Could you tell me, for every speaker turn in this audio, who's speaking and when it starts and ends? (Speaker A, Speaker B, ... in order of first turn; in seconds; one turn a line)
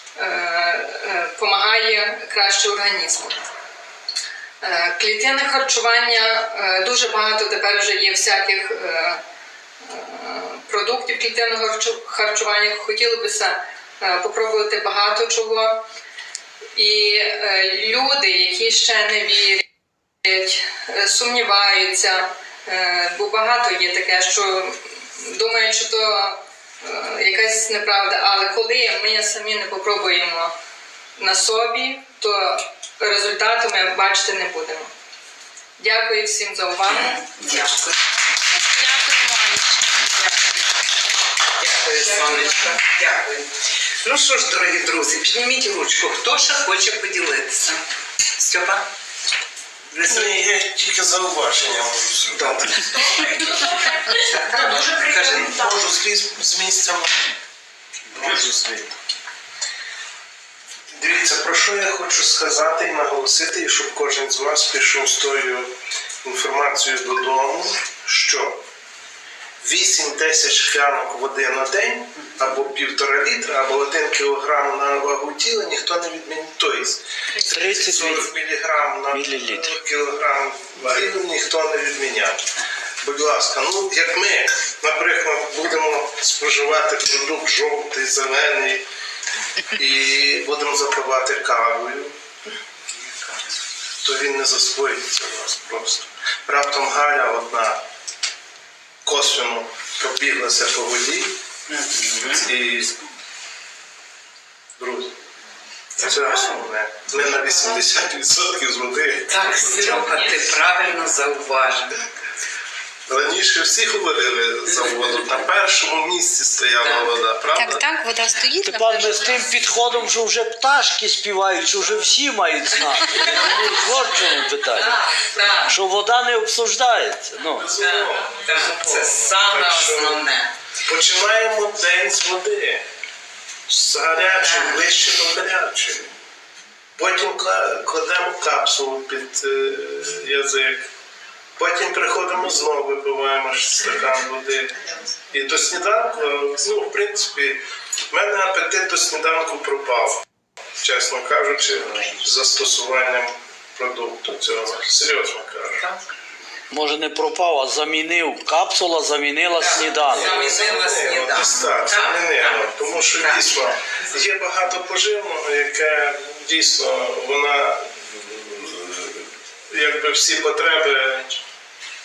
Speaker A: 0.1-3.4
Speaker A: 4.6-9.2
Speaker A: 9.8-15.8
Speaker A: 16.7-19.6
Speaker A: 20.2-30.5
Speaker A: 31.2-34.9
Speaker A: 35.8-37.3
Speaker B: 36.9-38.0
Speaker C: 38.8-40.0
Speaker B: 40.1-40.6
Speaker B: 41.5-43.5
Speaker B: 44.0-47.8
Speaker B: 48.4-48.9
Speaker B: 49.9-50.5
Speaker D: 50.0-53.3
Speaker B: 52.3-55.6
Speaker D: 54.5-57.1
Speaker D: 58.1-59.0
Speaker D: 60.9-65.7
Speaker D: 66.2-68.6
Speaker D: 69.6-82.4
Speaker E: 77.4-78.4
Speaker E: 79.1-79.8
Speaker D: 83.0-88.8
Speaker D: 89.7-92.1
Speaker B: 92.9-93.4
Speaker D: 94.0-97.8
Speaker D: 99.0-101.3
Speaker B: 101.7-102.5
Speaker D: 102.3-103.0
Speaker D: 104.8-105.1
Speaker D: 106.0-109.3
Speaker B: 106.0-106.5
Speaker B: 109.3-112.0
Speaker D: 113.1-117.8
Speaker B: 116.8-117.2
Speaker C: 117.5-119.4
Speaker E: 118.6-125.0
Speaker B: 124.7-125.7
Speaker E: 125.7-127.8
Speaker D: 127.5-130.2
Speaker B: 127.8-130.5
Speaker D: 130.8-132.8
Speaker D: 133.7-136.1
Speaker B: 134.4-134.9
Speaker D: 136.9-140.8
Speaker D: 141.6-144.8
Speaker D: 145.3-147.6
Speaker D: 148.1-150.2
Speaker D: 150.8-155.9
Speaker E: 156.7-160.4
Speaker B: 159.5-163.5
Speaker D: 159.8-171.4